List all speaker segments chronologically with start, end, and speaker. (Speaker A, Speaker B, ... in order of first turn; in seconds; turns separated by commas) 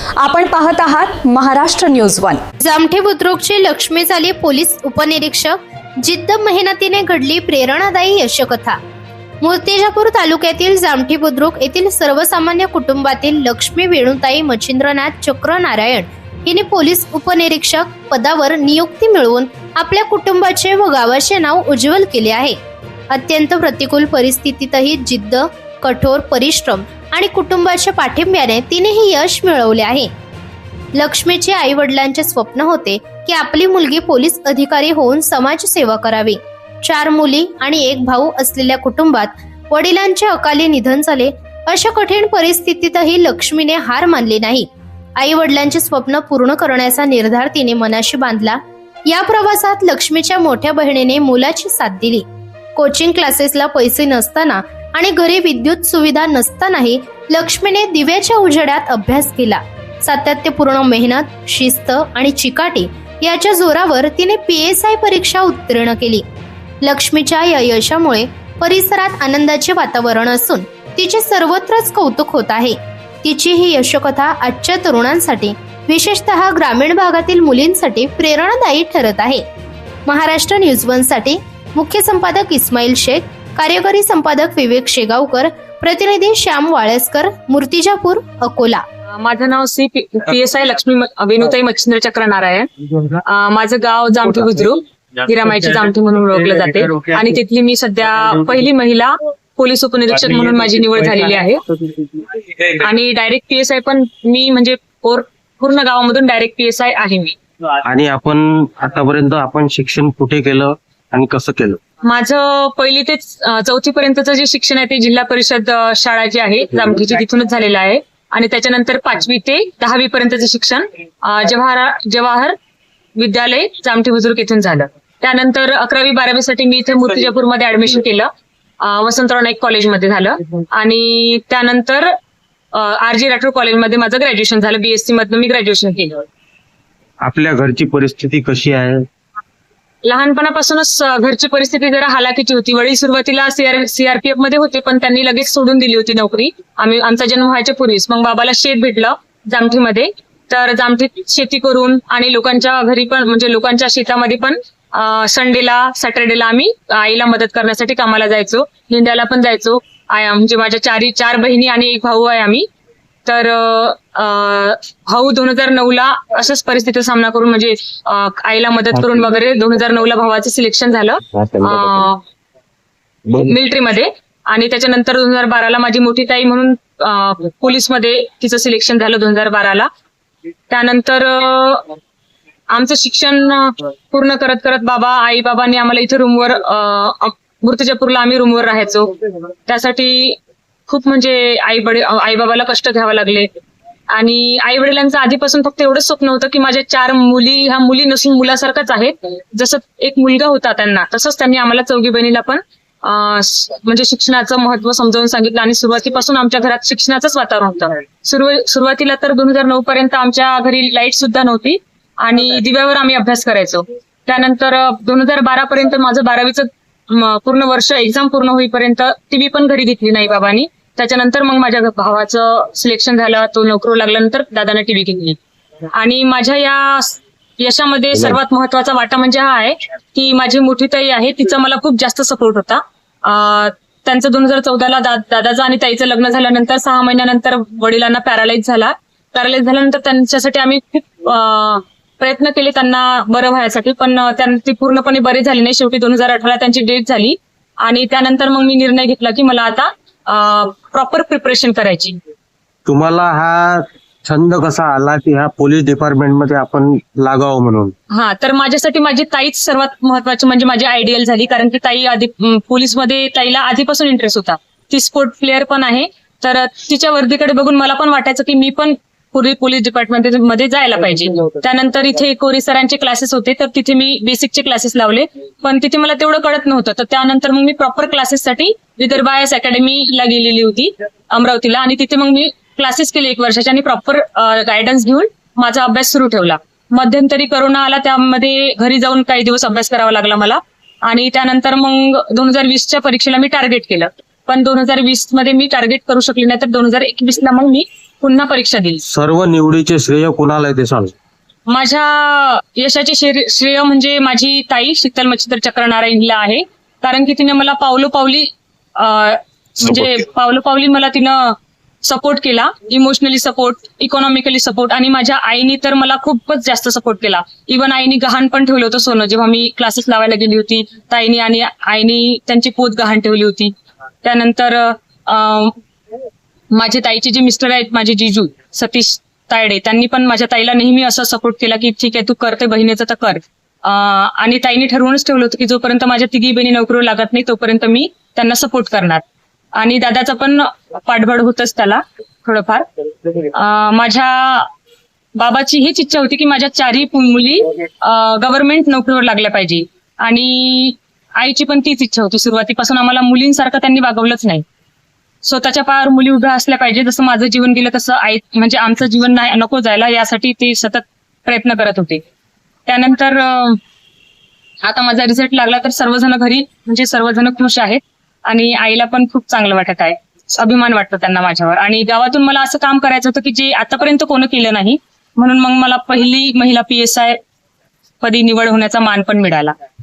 Speaker A: 0.2-2.4, Speaker B: 2.6-8.8, Speaker B: 9.4-22.6, Speaker B: 23.1-30.1, Speaker B: 31.0-52.2, Speaker B: 52.8-66.2, Speaker B: 66.8-79.4, Speaker B: 80.1-88.8, Speaker C: 89.1-92.7, Speaker C: 93.3-101.6, Speaker C: 102.8-107.3, Speaker D: 107.8-111.8, Speaker C: 112.0-122.6, Speaker C: 123.2-128.3, Speaker C: 128.8-132.1, Speaker C: 132.7-136.2, Speaker D: 137.2-139.0, Speaker C: 140.0-162.7, Speaker C: 163.3-172.2, Speaker D: 171.4-172.0, Speaker C: 173.4-179.9, Speaker C: 180.7-181.9, Speaker C: 182.7-189.2, Speaker C: 189.7-190.4, Speaker C: 190.9-193.5, Speaker C: 194.1-225.4, Speaker C: 225.9-252.2, Speaker D: 252.9-257.9, Speaker C: 258.1-299.0, Speaker D: 299.1-301.1, Speaker C: 301.7-323.7, Speaker D: 309.9-310.1, Speaker C: 324.2-325.8, Speaker C: 326.7-339.2, Speaker C: 339.8-342.9, Speaker C: 343.5-344.7, Speaker C: 345.4-354.6, Speaker C: 355.4-362.2, Speaker C: 362.9-363.8, Speaker C: 364.8-377.4, Speaker C: 378.2-379.7